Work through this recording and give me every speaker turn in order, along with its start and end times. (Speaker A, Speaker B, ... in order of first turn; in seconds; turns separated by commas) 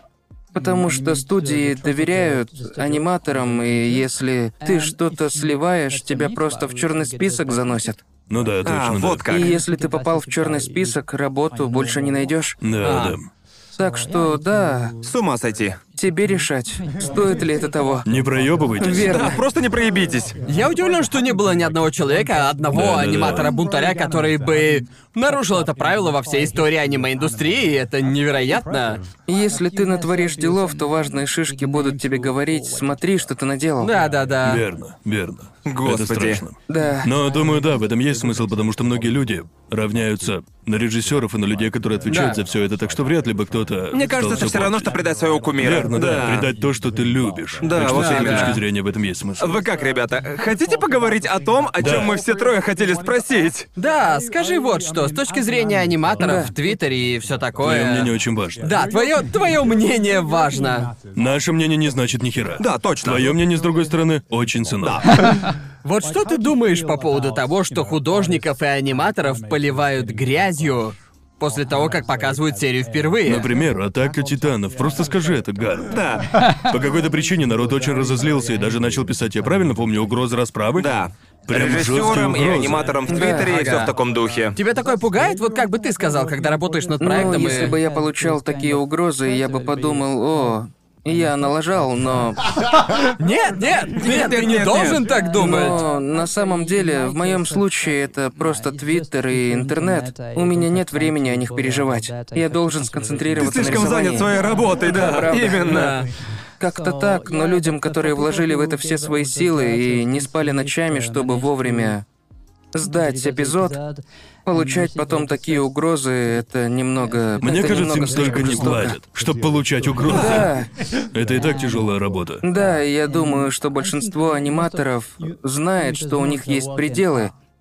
Speaker A: 0.5-8.0, Speaker B: 8.3-9.3, Speaker C: 8.6-9.5, Speaker A: 9.3-12.6, Speaker B: 12.6-13.3, Speaker D: 12.8-13.2, Speaker A: 13.7-14.9, Speaker C: 15.0-15.8, Speaker A: 15.9-18.1, Speaker B: 18.1-19.3, Speaker A: 18.8-19.4, Speaker C: 18.9-20.4, Speaker D: 20.4-29.0, Speaker B: 22.7-23.5, Speaker A: 29.3-33.9, Speaker D: 33.8-34.6, Speaker B: 34.4-44.9, Speaker C: 35.6-36.4, Speaker A: 36.7-37.1, Speaker D: 42.1-42.4, Speaker C: 43.9-46.5, Speaker B: 45.6-49.6, Speaker C: 47.6-48.6, Speaker D: 47.8-48.6, Speaker C: 49.4-53.7, Speaker B: 51.8-52.1, Speaker D: 53.8-58.1, Speaker A: 56.2-56.5, Speaker B: 57.6-58.7, Speaker D: 58.6-60.9, Speaker B: 61.1-65.1, Speaker C: 62.6-63.3, Speaker D: 65.2-73.5, Speaker B: 73.2-76.0, Speaker C: 75.9-76.2, Speaker B: 76.5-80.9, Speaker C: 80.8-84.6, Speaker B: 81.5-82.9, Speaker A: 83.1-83.5, Speaker D: 83.3-83.9, Speaker D: 84.5-87.8, Speaker A: 87.0-92.4, Speaker D: 93.1-95.8, Speaker C: 94.0-95.0, Speaker A: 95.3-105.9, Speaker C: 103.3-106.0, Speaker D: 105.5-106.1, Speaker A: 106.6-112.0, Speaker A: 112.7-113.8, Speaker A: 114.5-119.0, Speaker B: 117.4-120.5, Speaker A: 120.1-120.7, Speaker B: 121.1-122.4, Speaker A: 122.4-127.3